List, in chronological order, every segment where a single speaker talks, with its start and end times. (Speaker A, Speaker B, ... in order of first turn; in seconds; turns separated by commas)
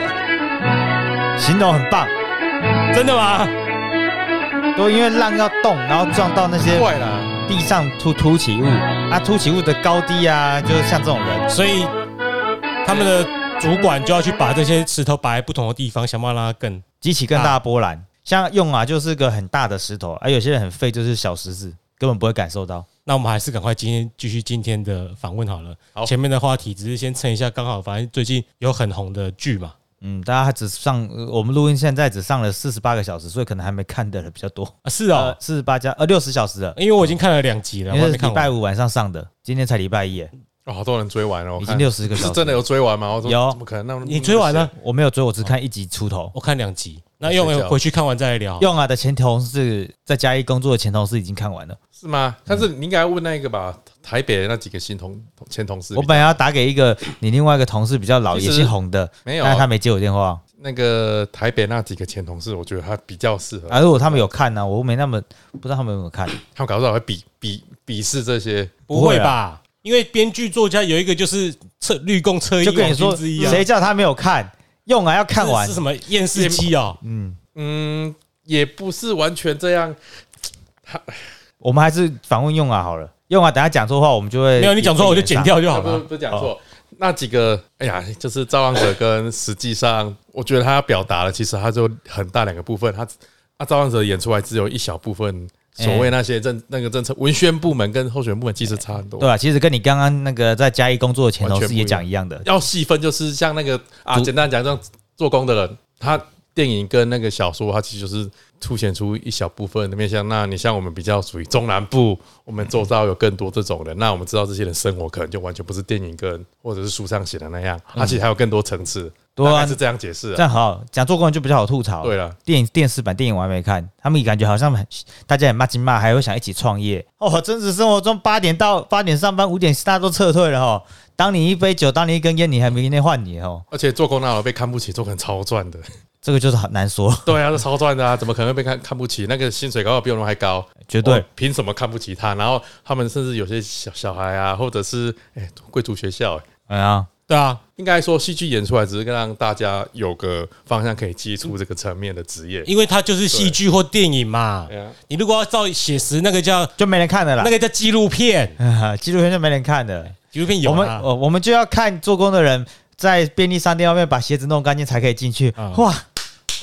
Speaker A: 1.4-2.1, Speaker B: 2.9-3.5, Speaker A: 4.8-6.9, Speaker C: 6.7-7.3, Speaker A: 7.5-11.5, Speaker B: 11.5-11.9, Speaker B: 12.8-16.8, Speaker A: 17.0-22.9, Speaker B: 23.1-29.8, Speaker A: 30.0-37.1, Speaker B: 34.9-35.4, Speaker B: 36.8-38.5, Speaker A: 37.9-40.3, Speaker C: 40.7-44.7, Speaker A: 41.6-42.6, Speaker A: 43.2-43.6, Speaker B: 44.0-44.7, Speaker A: 44.7-46.3, Speaker B: 46.3-48.7, Speaker C: 47.2-47.8, Speaker A: 48.6-51.8, Speaker C: 52.0-56.4, Speaker A: 55.9-60.4, Speaker C: 58.3-59.7, Speaker C: 60.6-64.3, Speaker A: 63.7-66.4, Speaker C: 66.5-68.7, Speaker B: 68.9-73.7, Speaker A: 68.9-69.3, Speaker A: 72.6-75.8, Speaker C: 73.4-73.6, Speaker B: 75.4-77.0, Speaker C: 76.3-76.7, Speaker A: 77.0-77.4, Speaker C: 77.5-80.0, Speaker C: 80.8-81.3, Speaker A: 81.6-85.6, Speaker B: 84.6-86.0, Speaker C: 85.6-99.3, Speaker A: 95.8-96.1, Speaker A: 99.2-102.5, Speaker C: 101.4-120.5, Speaker A: 119.4-119.8, Speaker A: 120.3-133.7, Speaker C: 122.0-122.4, Speaker C: 133.7-135.8, Speaker A: 136.2-137.4, Speaker C: 137.2-146.5, Speaker A: 140.9-141.2, Speaker A: 146.7-147.1, Speaker B: 147.3-147.6, Speaker C: 147.8-152.7, Speaker B: 152.7-156.8, Speaker C: 153.3-153.6, Speaker C: 154.7-155.0, Speaker A: 156.8-157.5, Speaker B: 157.4-158.6, Speaker A: 158.6-166.0, Speaker B: 160.3-161.1, Speaker B: 165.6-165.8